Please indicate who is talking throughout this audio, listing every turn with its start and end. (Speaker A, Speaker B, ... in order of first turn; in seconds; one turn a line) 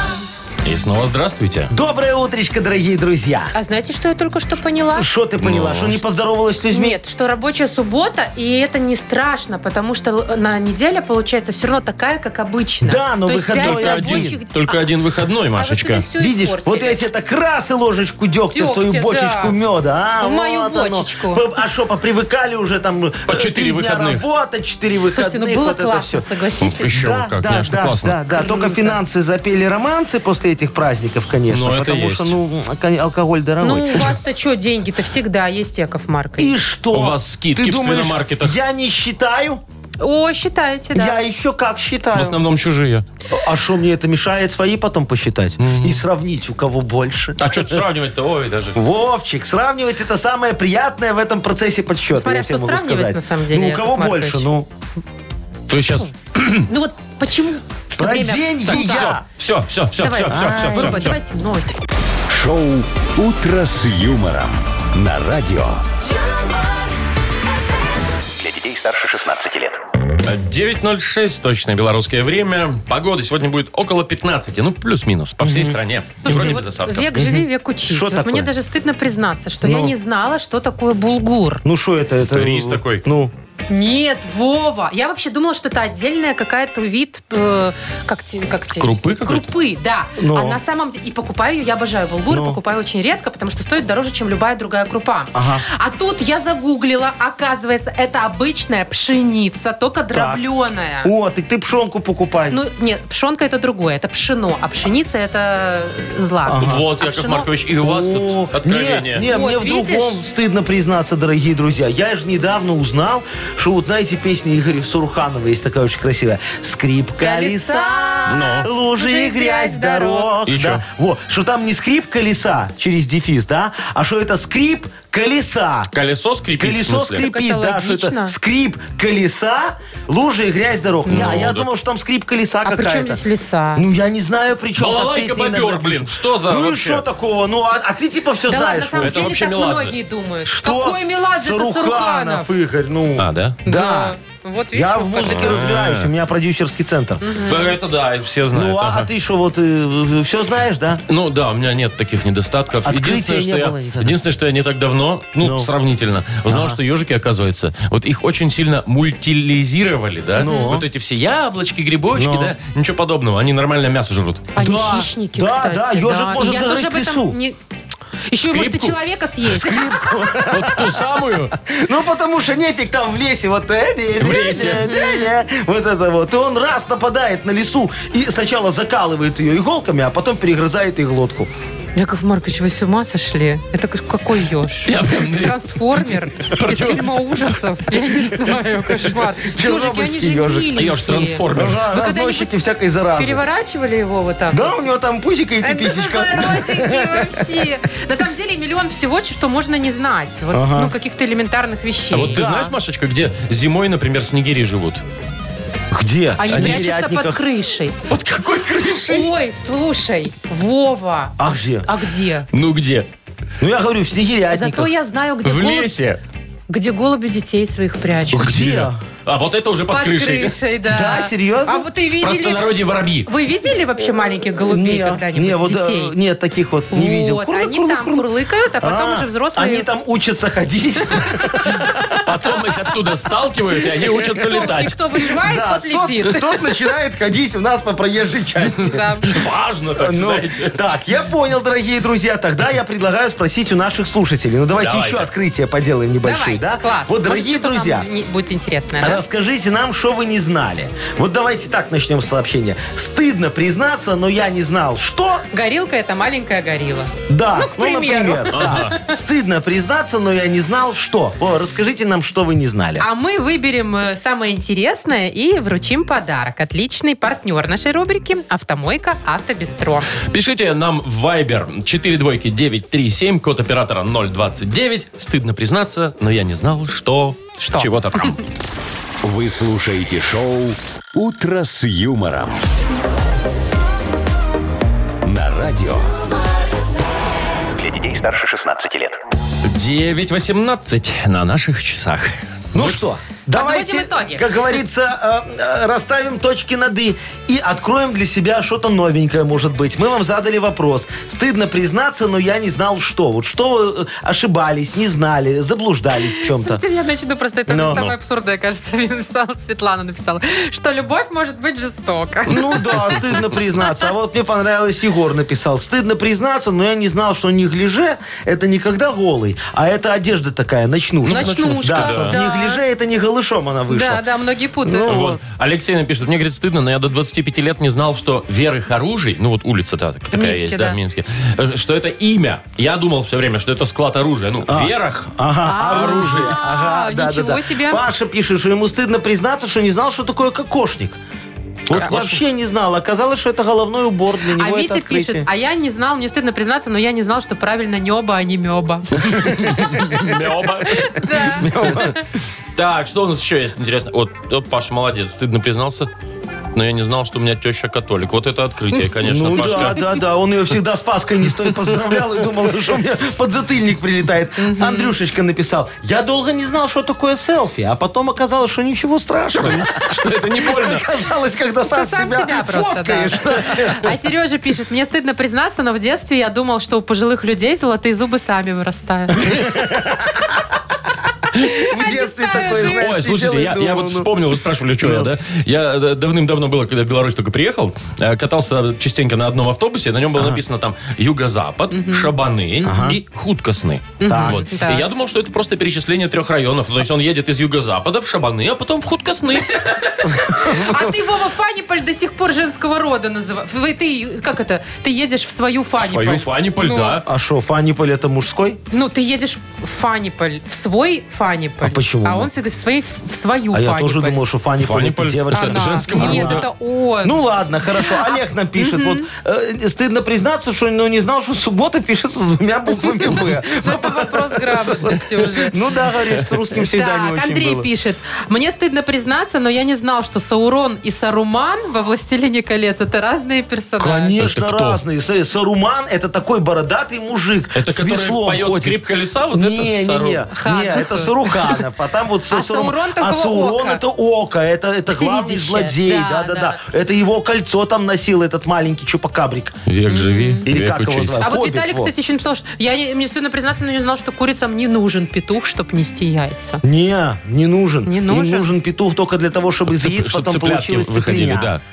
Speaker A: 0.6-1.7
Speaker B: 1.7-3.5
Speaker C: 3.5-5.1
Speaker B: 5.0-7.0
Speaker A: 5.4-6.0
Speaker C: 6.7-14.8
Speaker B: 12.8-14.3
Speaker A: 13.6-16.0
Speaker C: 15.6-17.1
Speaker B: 16.1-26.3
Speaker C: 18.5-19.6
Speaker C: 20.2-21.4
Speaker A: 23.3-24.2
Speaker C: 25.1-27.0
Speaker A: 26.6-28.2
Speaker B: 26.8-34.1
Speaker C: 28.3-29.0
Speaker A: 31.5-32.4
Speaker C: 33.6-36.5
Speaker B: 36.4-39.6
Speaker A: 36.9-38.5
Speaker C: 40.0-41.2
Speaker B: 40.9-42.4
Speaker A: 42.1-43.0
Speaker B: 43.3-47.8
Speaker A: 45.6-46.0
Speaker A: 47.4-48.8
Speaker B: 48.7-54.7
Speaker C: 52.1-54.5
Speaker A: 55.7-56.7
Speaker C: 56.7-59.1
Speaker B: 58.0-59.2
Speaker A: 58.7-61.2
Speaker C: 60.0-61.8
Speaker B: 60.3-61.1
Speaker D: 62.3-65.8
Speaker E: 68.3-69.8
Speaker A: 70.2-77.2
Speaker B: 75.4-76.6
Speaker C: 76.2-81.6
Speaker B: 77.1-78.5
Speaker B: 79.6-79.9
Speaker B: 81.6-83.3
Speaker A: 82.3-83.0
Speaker C: 83.7-101.1
Speaker A: 88.8-89.5
Speaker B: 90.2-90.6
Speaker B: 92.3-92.6
Speaker B: 95.3-95.6
Speaker B: 100.1-100.4
Speaker B: 101.0-102.6
Speaker C: 102.5-107.5
Speaker B: 106.5-106.8
Speaker A: 106.6-109.2
Speaker B: 107.8-125.9
Speaker C: 109.2-110.2
Speaker C: 117.2-120.3
Speaker A: 118.3-118.7
Speaker A: 120.5-120.8
Speaker A: 125.9-127.2
Speaker B: 126.6-133.2
Speaker C: 127.1-128.3
Speaker C: 131.1-131.4
Speaker A: 131.1-131.7
Speaker C: 132.7-133.8
Speaker B: 133.7-139.3
Speaker A: 134.8-137.0
Speaker C: 138.5-142.5
Speaker A: 139.0-139.9
Speaker B: 140.4-144.2
Speaker A: 143.2-143.6
Speaker C: 143.7-145.6
Speaker B: 144.7-147.3
Speaker A: 145.2-146.1
Speaker C: 147.2-147.8
Speaker A: 147.4-149.1
Speaker B: 148.5-151.0
Speaker A: 151.1-164.5
Speaker B: 152.8-154.2
Speaker B: 155.4-155.7
Speaker B: 156.4-156.8
Speaker B: 160.4-160.8
Speaker C: 160.4-160.7
Speaker B: 162.1-162.5
Speaker C: 164.5-167.6
Speaker B: 164.6-167.4
Speaker C: 168.3-170.0
Speaker A: 168.4-169.0
Speaker B: 169.5-171.0
Speaker A: 170.4-171.6
Speaker B: 171.6-181.5
Speaker A: 174.2-174.9
Speaker C: 174.6-175.3
Speaker C: 181.9-192.6
Speaker A: 184.8-187.5
Speaker B: 189.4-190.8
Speaker A: 190.7-191.8
Speaker B: 191.5-193.4
Speaker C: 193.2-194.7
Speaker B: 194.5-197.6
Speaker C: 195.6-202.4
Speaker B: 200.5-200.9
Speaker A: 202.1-205.0
Speaker B: 202.3-202.8
Speaker B: 205.9-207.4
Speaker C: 206.4-207.9
Speaker A: 206.5-206.8
Speaker A: 208.1-209.3
Speaker C: 209.1-212.5
Speaker B: 211.4-211.9
Speaker A: 212.5-213.1
Speaker B: 213.6-214.9
Speaker C: 214.5-215.9
Speaker A: 215.4-216.2
Speaker C: 216.7-218.5
Speaker A: 218.3-220.6
Speaker B: 218.3-219.0
Speaker C: 219.9-222.7
Speaker B: 220.9-221.9
Speaker A: 222.2-223.3
Speaker C: 223.2-226.1
Speaker B: 224.7-228.3
Speaker C: 226.9-229.9
Speaker B: 228.8-232.3
Speaker A: 232.2-235.0
Speaker C: 234.4-236.6
Speaker B: 235.4-239.3
Speaker C: 238.7-239.3
Speaker A: 239.2-240.8
Speaker B: 240.0-248.1
Speaker A: 244.8-245.3
Speaker C: 246.2-249.2
Speaker B: 249.0-255.4
Speaker C: 255.5-259.1
Speaker B: 257.3-263.0
Speaker A: 258.5-258.9
Speaker C: 263.0-270.1
Speaker A: 270.2-278.4
Speaker C: 277.6-278.4
Speaker D: 279.2-282.6
Speaker D: 285.2-286.1
Speaker E: 287.8-289.2
Speaker A: 289.6-293.0
Speaker B: 292.7-306.8
Speaker C: 293.5-294.5
Speaker C: 306.3-313.3
Speaker B: 307.7-308.1
Speaker B: 312.5-324.2
Speaker A: 321.3-322.4
Speaker C: 321.3-322.8
Speaker C: 323.9-325.2
Speaker B: 324.8-325.4
Speaker A: 325.1-336.6
Speaker C: 330.3-331.0
Speaker B: 334.7-341.2
Speaker C: 335.6-338.0
Speaker B: 341.9-345.5
Speaker A: 341.9-342.3
Speaker C: 342.0-342.2
Speaker C: 344.6-350.0
Speaker A: 349.2-352.1
Speaker C: 351.1-351.7
Speaker B: 351.4-352.2
Speaker A: 352.8-356.1
Speaker A: 356.7-360.0
Speaker B: 359.2-374.1
Speaker C: 364.6-365.1
Speaker A: 369.6-371.1
Speaker C: 371.9-379.5
Speaker B: 379.4-380.6
Speaker C: 381.6-383.0
Speaker B: 381.6-384.3
Speaker A: 382.8-400.3
Speaker B: 385.0-385.3
Speaker C: 391.9-392.3
Speaker B: 392.8-393.2
Speaker C: 394.2-395.0
Speaker B: 394.3-394.6
Speaker B: 400.3-401.1
Speaker C: 400.5-407.2
Speaker A: 406.0-407.2
Speaker B: 407.2-408.8
Speaker C: 408.9-414.4
Speaker B: 411.8-412.5
Speaker B: 413.7-416.7
Speaker A: 414.8-416.6
Speaker C: 415.5-419.3
Speaker B: 417.2-427.9
Speaker C: 423.2-425.7
Speaker C: 426.8-434.4
Speaker B: 434.0-449.8
Speaker A: 434.4-435.0
Speaker A: 437.8-440.4
Speaker C: 440.5-441.8
Speaker C: 442.5-444.0
Speaker C: 445.1-446.8
Speaker A: 449.9-451.4
Speaker C: 450.1-450.6
Speaker B: 450.6-452.1
Speaker C: 451.4-456.8
Speaker B: 456.8-461.7
Speaker C: 458.1-458.7
Speaker A: 459.9-461.8